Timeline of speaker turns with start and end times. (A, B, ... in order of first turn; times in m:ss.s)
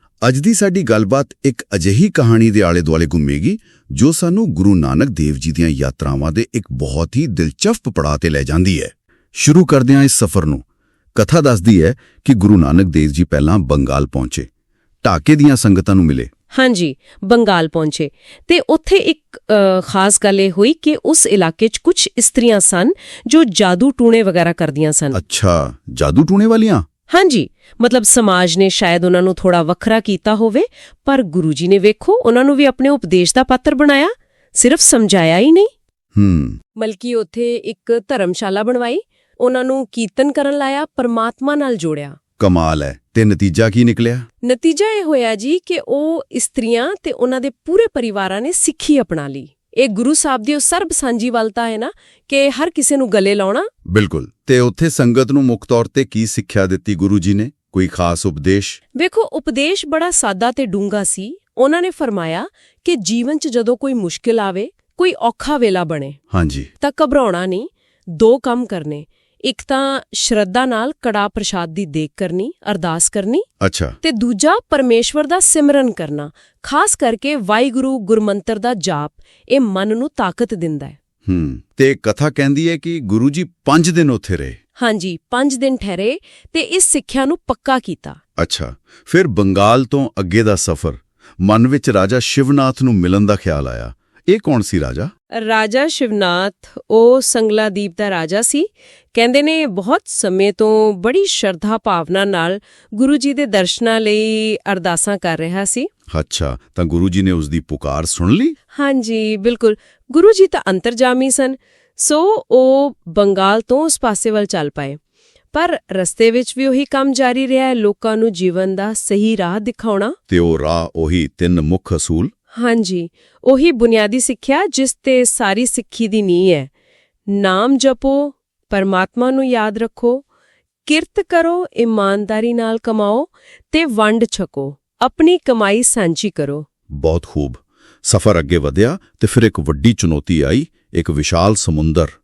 0:00.2-0:14.5 A
0:15.0-0:16.3 A
0:16.5-0:25.2 B
0:25.1-0:26.9 A
0:27.1-0:35.7 B
0:36.2-0:36.6 A
0:36.8-0:42.2 B
0:42.4-0:44.3 A
0:44.4-0:53.7 B
0:53.8-0:58.8 A
0:59.0-1:06.2 B
1:06.3-1:06.7 A
1:06.8-1:13.5 B
1:13.6-1:14.0 A
1:14.0-1:21.0 B
1:21.3-1:24.6 A
1:24.8-1:28.2 B
1:28.4-1:35.1 A
1:35.3-1:45.9 B
1:46.1-1:48.6 A
1:48.7-1:55.0 B
1:55.5-2:00.2 B
2:00.3-2:02.3 A
2:02.5-2:06.7 B
2:07.3-2:10.2 B
2:10.9-2:16.7 B
2:16.9-2:22.1 A